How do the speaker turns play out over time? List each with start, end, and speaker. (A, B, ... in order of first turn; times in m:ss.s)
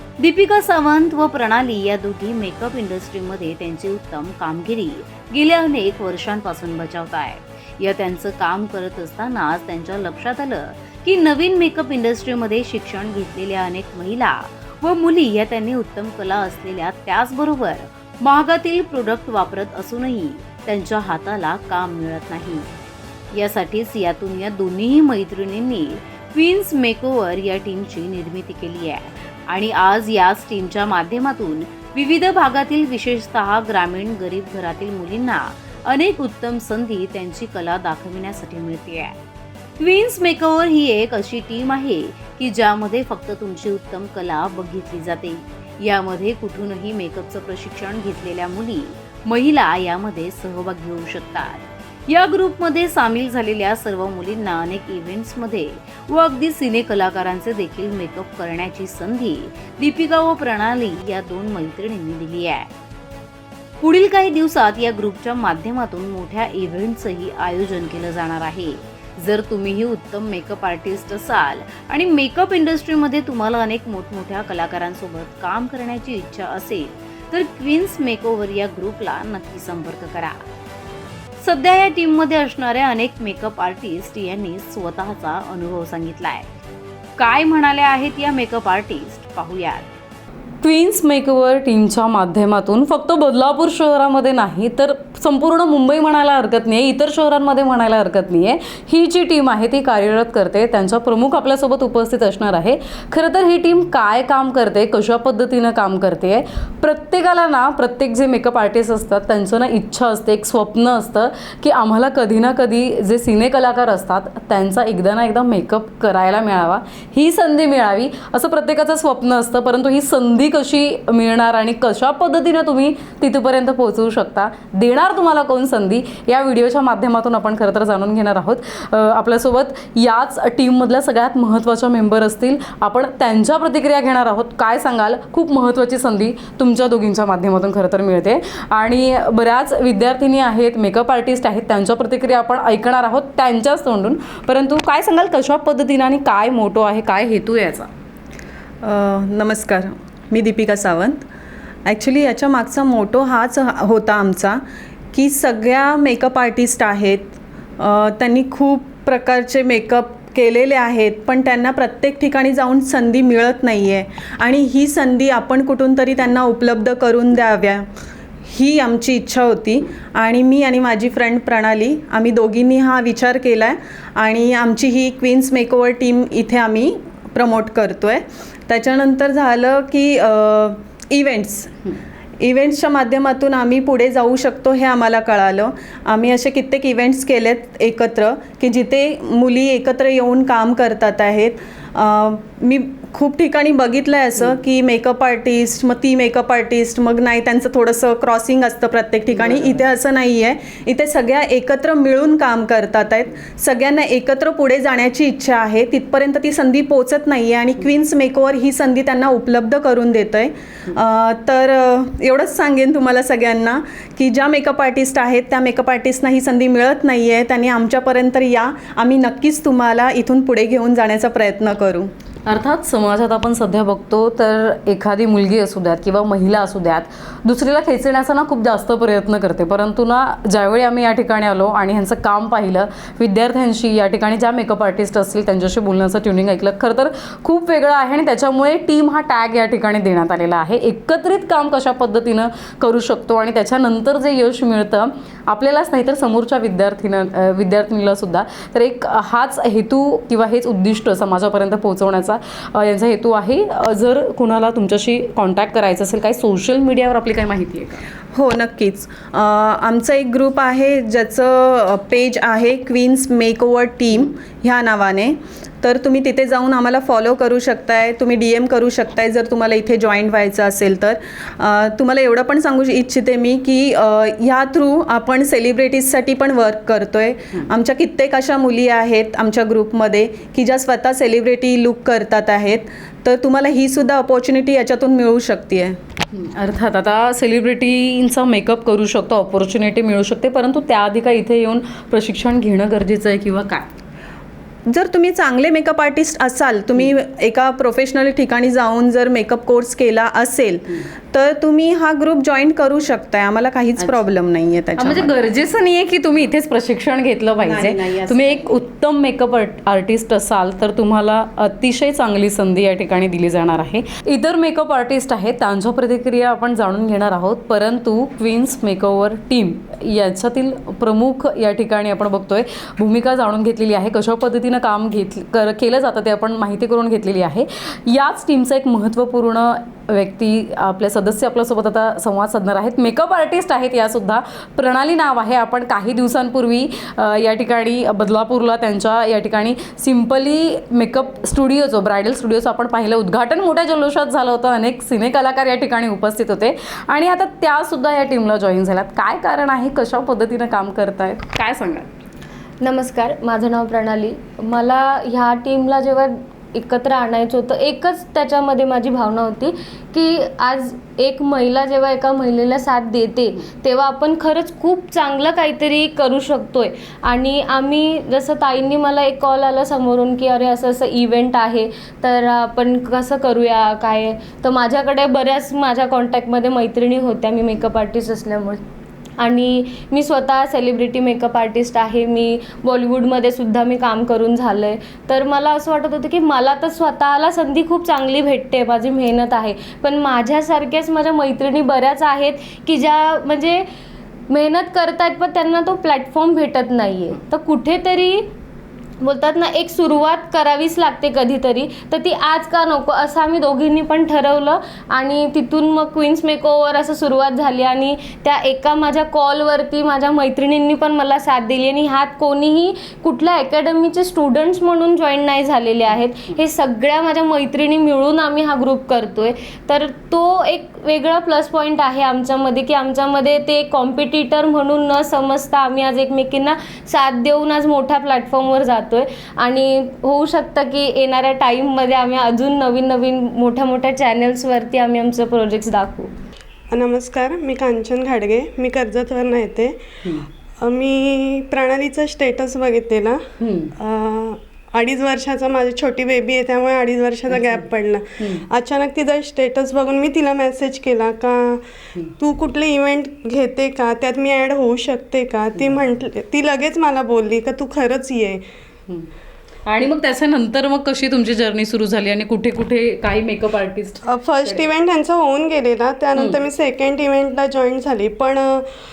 0:00.2-0:22.6 A
0:23.3-0:39.1 A
0:39.8-1:02.7 A
1:03.8-1:20.4 A
1:21.4-1:26.5 A
1:27.2-1:29.9 A
1:30.6-2:27.9 B
2:28.8-2:31.2 C
2:31.9-2:34.6 C
2:35.1-2:47.8 C
2:48.5-3:01.8 C
3:02.4-3:42.1 C
3:42.4-4:18.0 B
4:18.3-4:46.0 C
4:46.3-4:53.9 B
4:54.9-5:05.3 C
5:04.0-5:04.4 B
5:05.0-5:52.1 B
5:07.6-5:08.8 C
5:52.8-6:18.8 D
6:19.4-6:33.8 D
6:34.5-6:38.4 D
6:39.2-7:16.3 D
7:16.9-7:20.0 E
7:20.8-7:23.4 E
7:23.6-7:23.9 B
7:24.0-7:31.8 E
7:27.5-7:27.8 B
7:32.4-7:38.6 E
7:35.8-7:36.1 B
7:39.8-7:44.8 B
7:44.2-7:48.8 E